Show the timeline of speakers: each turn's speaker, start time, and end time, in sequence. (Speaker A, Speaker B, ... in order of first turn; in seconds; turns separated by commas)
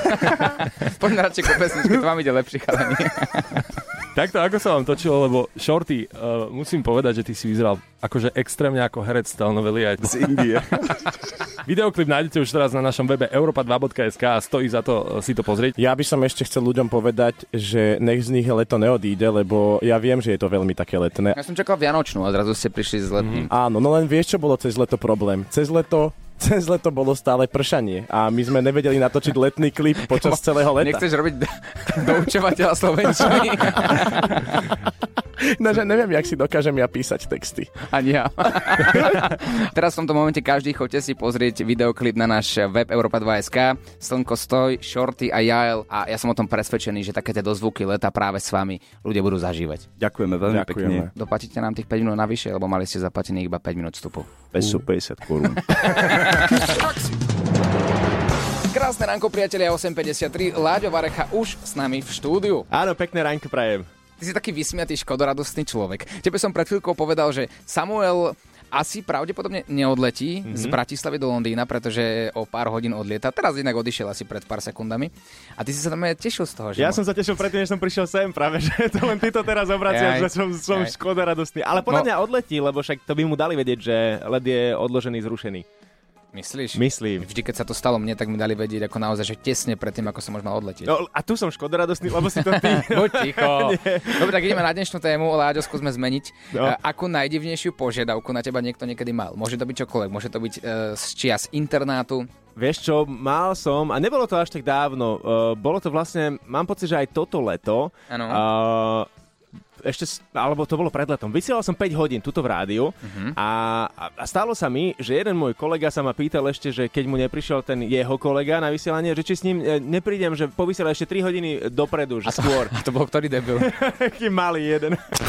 Speaker A: 0.2-3.6, Speaker B: 4.1-10.1, Speaker C: 10.0-11.0, Speaker B: 11.6-15.7, Speaker D: 15.8-21.4, Speaker A: 21.4-23.5, Speaker B: 23.2-23.5, Speaker D: 23.5-31.0, Speaker A: 30.1-34.6, Speaker D: 35.4-37.7, Speaker A: 37.9-49.9, Speaker C: 50.0-51.1, Speaker D: 50.5-51.1, Speaker A: 51.1-54.4, Speaker C: 54.5-55.6, Speaker D: 54.6-55.6, Speaker A: 55.8-56.8, Speaker A: 58.7-62.7, Speaker E: 62.7-63.9, Speaker A: 64.2-77.0, Speaker E: 70.5-70.8, Speaker E: 76.8-85.6, Speaker A: 79.9-80.9, Speaker A: 81.8-82.1, Speaker A: 86.3-90.9, Speaker E: 86.7-87.3, Speaker E: 90.8-94.6, Speaker A: 92.2-102.3, Speaker E: 96.5-96.8, Speaker E: 102.5-109.1, Speaker A: 108.1-108.4, Speaker E: 109.8-122.7, Speaker A: 113.0-113.3, Speaker A: 122.3-123.7, Speaker E: 123.6-125.0